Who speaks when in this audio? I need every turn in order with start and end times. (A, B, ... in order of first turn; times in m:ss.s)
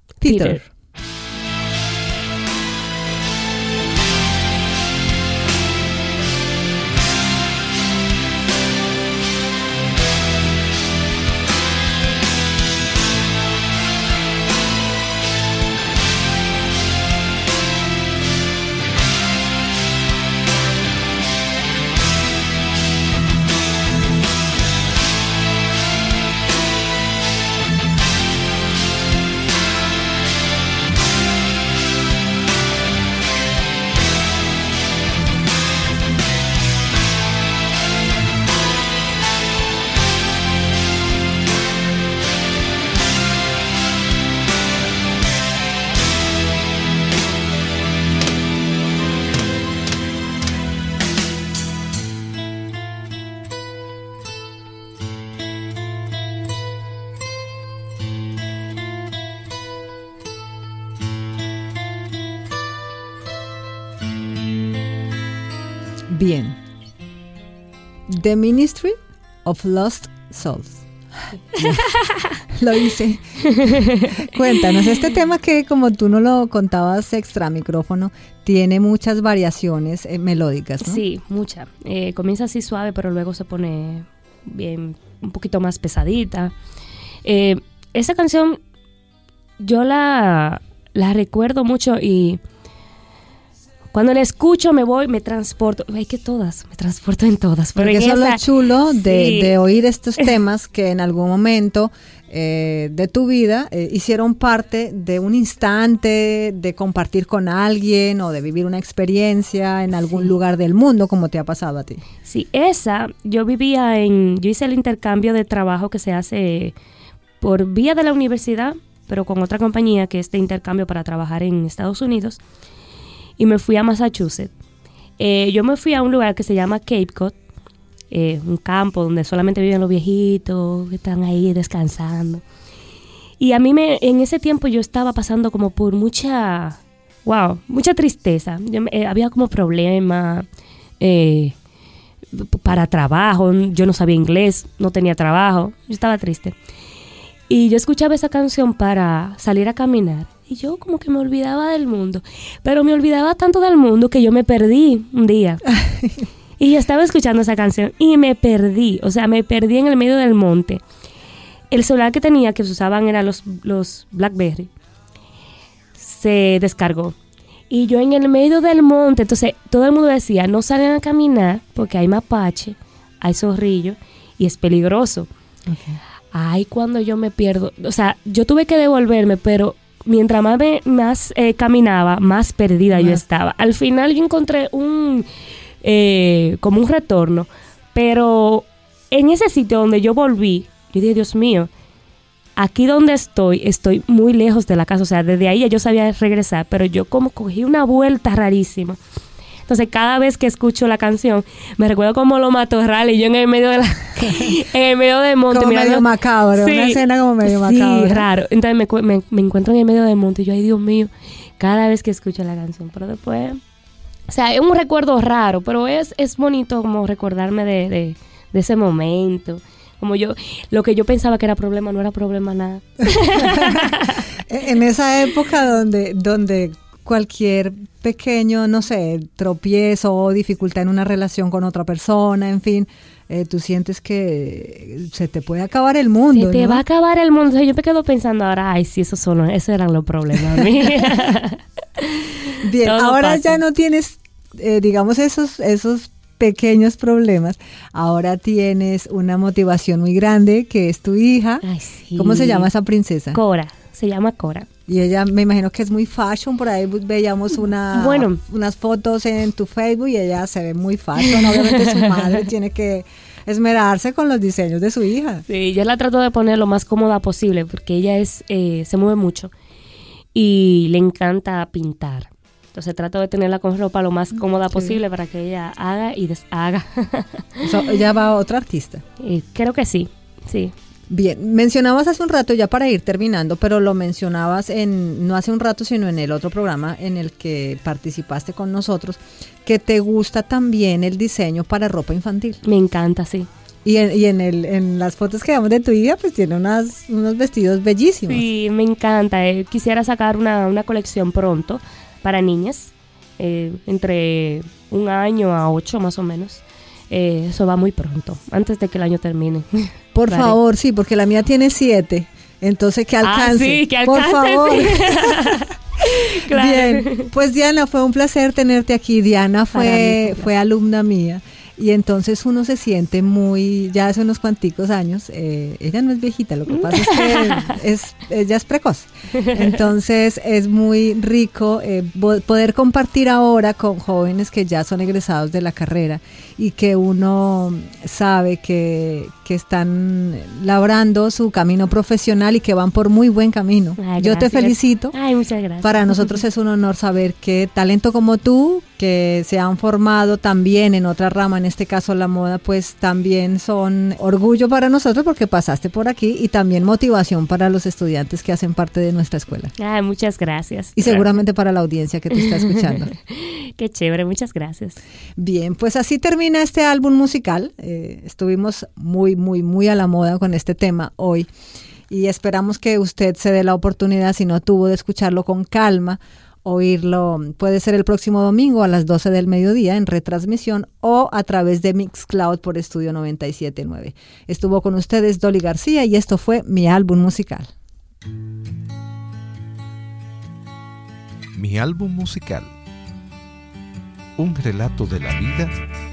0:00.2-0:00.6 A
0:00.2-0:00.7 B
1:06.1-1:06.6 B
1:08.1-1:10.8 B
1:11.6-1:11.8 B
1:11.6-1:12.3 A
1:12.5-1:21.0 B
1:13.6-1:14.2 A
1:20.8-1:26.5 A
1:27.2-1:28.6 A
1:29.6-1:32.4 A
1:33.9-1:39.5 A
1:37.8-1:52.0 B
1:52.2-1:56.7 A
1:57.4-2:02.4 A
2:03.4-2:04.5 A
2:05.2-2:07.3 A
2:08.1-2:12.4 A
2:13.4-2:20.4 A
2:21.0-2:21.5 A
2:22.3-2:26.5 A
2:27.5-2:35.6 A
2:35.8-2:36.2 B
2:36.6-2:40.8 A
2:41.7-2:44.7 A
2:46.0-2:47.2 A
2:47.7-2:55.3 A
2:55.7-2:56.0 B
2:56.3-3:05.3 A
3:02.9-3:03.2 B
3:05.8-3:11.7 A
3:12.6-3:19.0 A
3:19.7-3:33.6 A
3:25.5-3:28.3 B
3:34.3-3:44.2 A
3:43.3-3:43.9 B
3:44.5-3:56.8 B
3:56.3-4:03.6 A
4:00.4-4:01.1 B
4:02.6-4:11.6 B
4:11.6-4:12.7 A
4:12.2-4:13.4 B
4:13.3-4:14.7 A
4:14.9-4:25.4 B
4:17.9-4:18.4 A
4:21.2-4:22.4 A
4:25.5-4:29.5 A
4:30.3-4:37.7 A
4:34.7-4:35.0 B
4:37.6-4:39.0 B
4:39.2-4:40.7 A
4:41.1-4:52.6 B
4:52.6-4:53.5 A
4:53.8-4:58.5 B
4:58.2-5:10.6 A
5:10.1-5:15.6 B
5:13.2-5:17.3 A
5:16.4-5:45.1 B
5:19.7-5:20.5 A
5:26.7-5:27.8 A
5:29.4-5:29.8 A
5:44.0-5:46.3 A
5:45.8-5:59.7 B
5:59.8-6:01.3 A
6:01.0-6:03.1 B
6:02.4-6:05.0 A
6:05.4-6:11.5 B
6:12.1-6:27.7 B
6:31.5-6:32.7 C
6:34.4-6:35.7 C